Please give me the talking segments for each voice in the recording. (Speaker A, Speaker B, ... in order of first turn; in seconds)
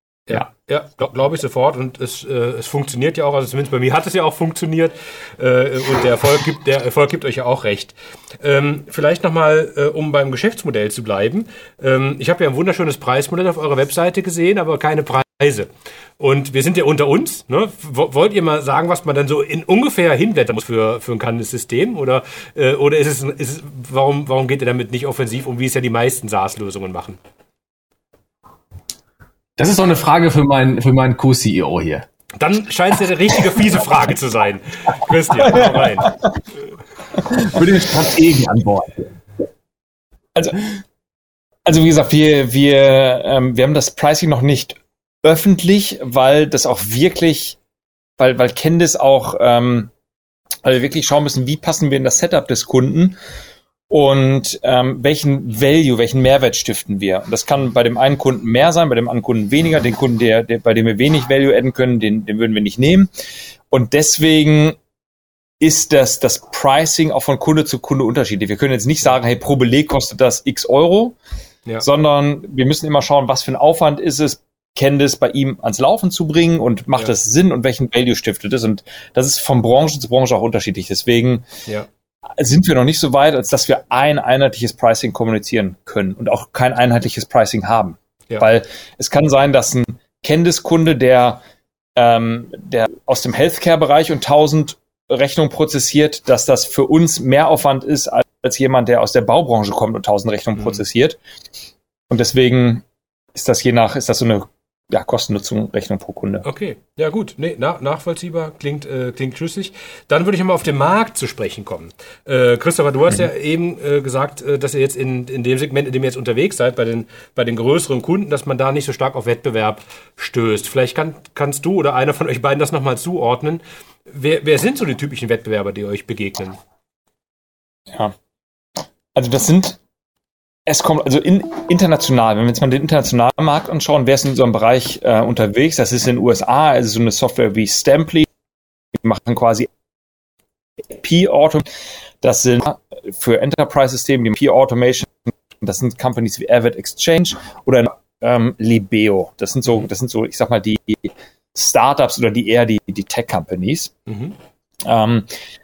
Speaker A: 0.3-27.2, 32.4-36.1, 106.5-126.6, 154.1-154.3
Speaker B: 29.6-32.0, 37.3-39.1
Speaker C: 40.4-40.6, 41.6-47.6, 48.2-49.9, 50.6-53.2, 53.9-63.1, 63.7-64.8, 65.6-71.2, 71.8-81.5, 82.4-91.4, 92.0-101.2, 102.1-106.5, 129.2-129.8, 130.7-138.3, 139.0-139.7, 140.9-141.7, 142.2-154.0, 154.8-155.3